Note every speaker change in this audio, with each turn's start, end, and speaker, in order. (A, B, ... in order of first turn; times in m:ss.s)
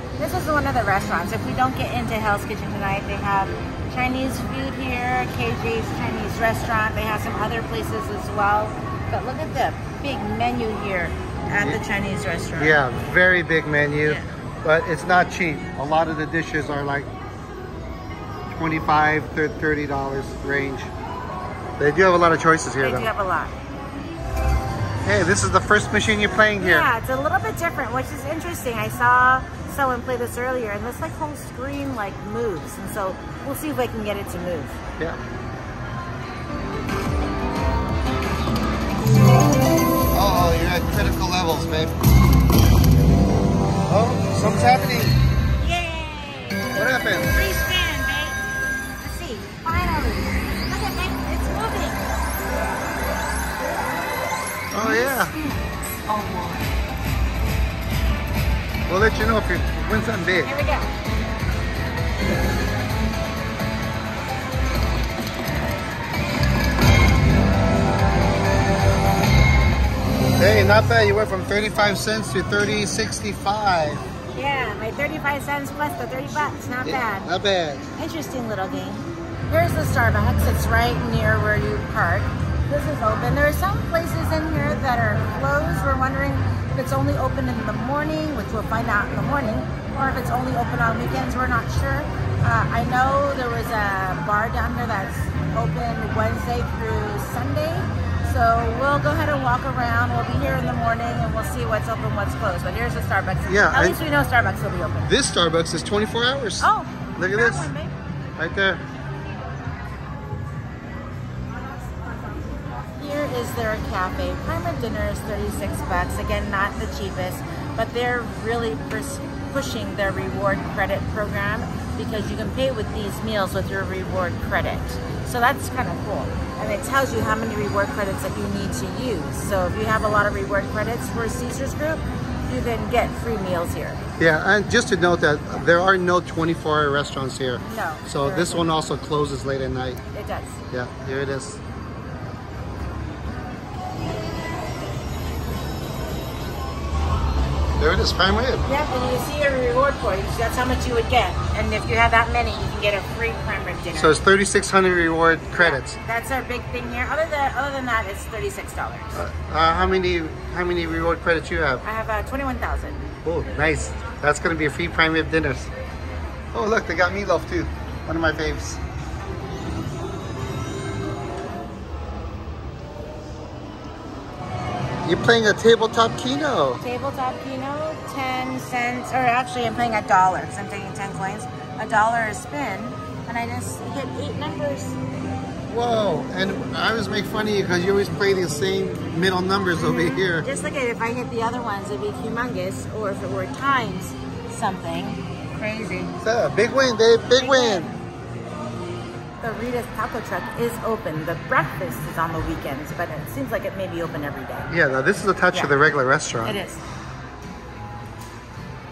0:00.2-0:12.8 A
0:11.5-0:11.8 B
0:12.6-0:17.1 B
0:18.5-0:20.9 B
0:21.8-0:23.1 B
0:22.8-0:23.6 A
0:25.0-0:26.9 B
0:26.4-0:34.8 A
0:40.1-0:42.0 B
0:43.9-0:45.2 B
0:45.6-0:46.7 A
0:46.7-0:47.3 B
0:47.2-0:48.4 A
0:49.0-0:52.0 A
0:54.7-0:55.4 B
0:54.8-0:56.7 A
0:58.9-1:00.5 B
1:00.4-1:00.9 A
1:10.4-1:14.0 B
1:14.4-1:17.3 A
1:16.8-1:17.9 B
1:18.0-1:45.1 A
1:43.5-1:44.0 B
1:45.0-1:47.7 B
1:46.6-1:47.9 A
1:48.4-1:48.8 B
1:53.0-2:14.0 A
2:14.2-2:20.0 B
2:17.6-2:18.7 A
2:20.1-2:20.6 A
2:20.7-2:21.6 B
2:27.8-2:28.6 B
2:28.6-2:34.2 A
2:33.9-2:36.0 B
2:35.6-2:39.2 A
2:39.1-2:41.8 B
2:41.8-2:43.0 A
2:43.2-2:45.7 B
2:46.5-2:48.8 B
2:55.0-2:56.8 B
2:56.8-3:05.0 A
3:05.7-3:10.5 B
3:09.8-3:16.2 A
3:16.2-3:17.9 B
3:17.3-3:18.0 A
3:19.4-3:24.7 A
3:24.7-3:26.6 B
3:26.4-3:26.8 A